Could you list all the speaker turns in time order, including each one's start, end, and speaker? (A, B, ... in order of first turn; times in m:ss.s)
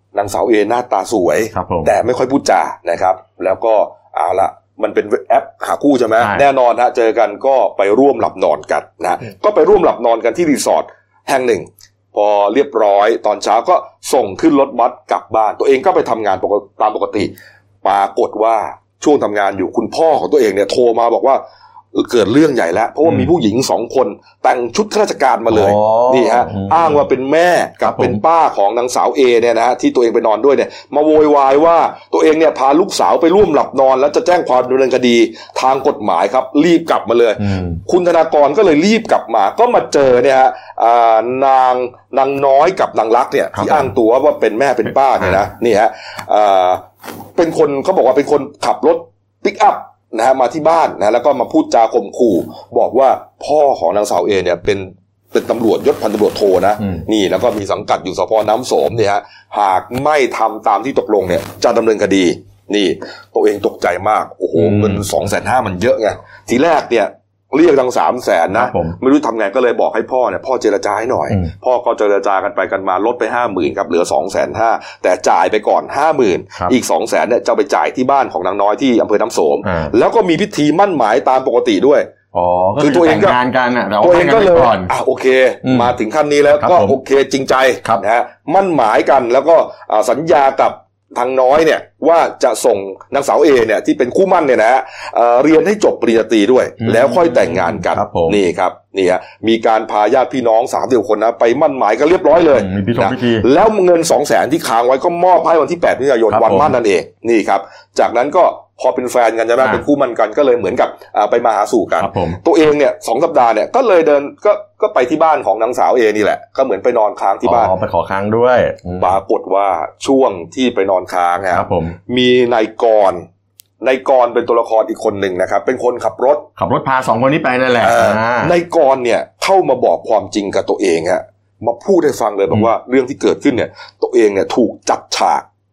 0:00.1-0:17.3 A
0:01.5-0:01.9 B
0:06.2-0:06.4 B
0:17.8-0:21.4 A
0:21.9-0:46.8 A
0:25.5-0:27.0 B
0:27.8-0:28.2 B
0:37.4-0:37.8 B
0:43.5-0:43.9 B
0:47.4-1:22.1 A
1:04.6-1:05.0 B
1:08.5-1:09.0 B
1:19.6-1:19.9 B
1:22.3-1:24.9 B
1:22.8-1:23.4 A
1:24.0-1:57.7 A
1:25.6-1:25.9 B
1:26.6-1:27.0 B
1:36.8-1:38.4 B
1:42.5-1:43.4 B
1:46.3-1:46.7 B
1:52.0-1:52.4 B
1:57.4-1:59.1 B
1:59.0-2:03.2 A
2:01.5-2:02.0 B
2:03.8-2:06.5 A
2:06.6-2:08.5 B
2:07.8-2:15.4 A